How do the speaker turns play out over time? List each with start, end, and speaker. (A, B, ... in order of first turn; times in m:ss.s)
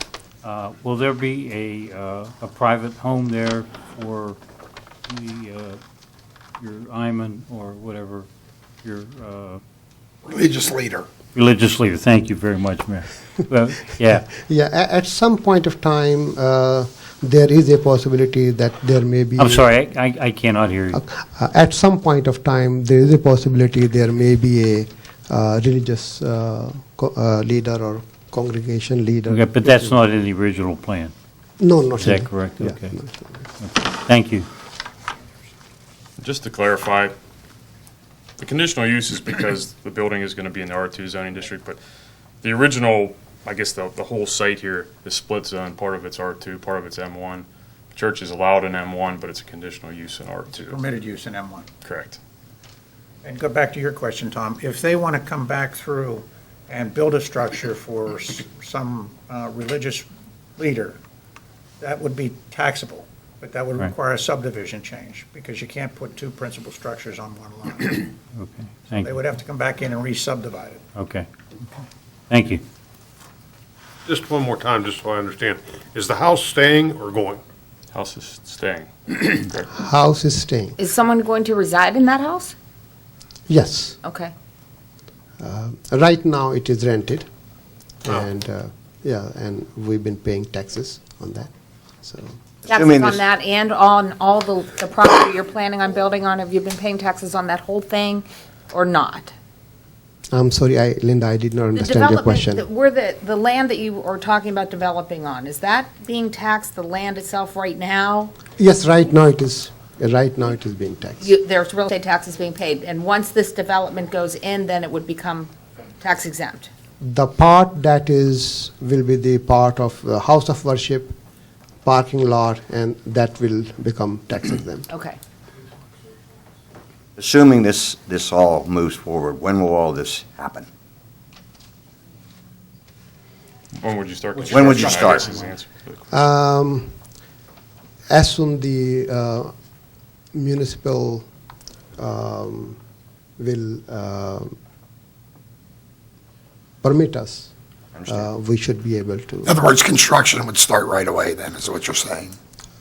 0:00.4-0:04.4 A
0:05.1-0:05.8 A
0:06.6-0:08.3 A
0:08.8-0:09.6 A
0:10.3-0:11.1 B
0:11.3-0:14.3 A
0:14.3-0:19.7 C
0:19.4-0:21.0 A
0:20.9-0:30.0 C
0:29.3-0:31.1 A
0:31.6-0:33.5 C
0:32.0-0:32.9 A
0:33.6-0:34.5 A
0:36.2-0:37.2 D
0:38.4-0:41.8 D
0:42.4-0:50.8 D
0:50.5-0:51.7 E
0:51.8-0:52.2 D
0:53.2-1:01.0 E
1:01.8-1:08.1 E
1:08.4-1:09.2 A
1:08.9-1:10.8 E
1:11.0-1:11.3 A
1:12.3-1:12.6 A
1:14.1-1:17.4 F
1:17.9-1:19.7 D
1:19.7-1:20.8 C
1:20.8-1:22.5 G
1:23.5-1:24.0 C
1:24.0-1:24.3 G
1:25.4-1:27.3 C
1:28.0-1:31.5 C
1:32.0-1:32.4 C
1:32.7-1:39.3 G
1:32.7-1:33.2 H
1:40.3-1:42.6 C
1:41.8-1:48.3 G
1:48.6-1:51.3 C
1:51.2-1:56.7 G
1:57.0-2:01.1 C
2:01.8-2:04.9 C
2:04.9-2:05.2 G
2:07.2-2:10.7 H
2:13.7-2:16.1 D
2:14.5-2:15.2 H
2:16.1-2:16.9 C
2:18.1-2:19.5 C
2:20.3-2:21.3 C
2:22.0-2:22.8 C
2:23.4-2:24.6 C
2:26.8-2:27.5 C
2:28.0-2:28.2 H
2:28.1-2:29.6 C
2:29.5-2:32.3 B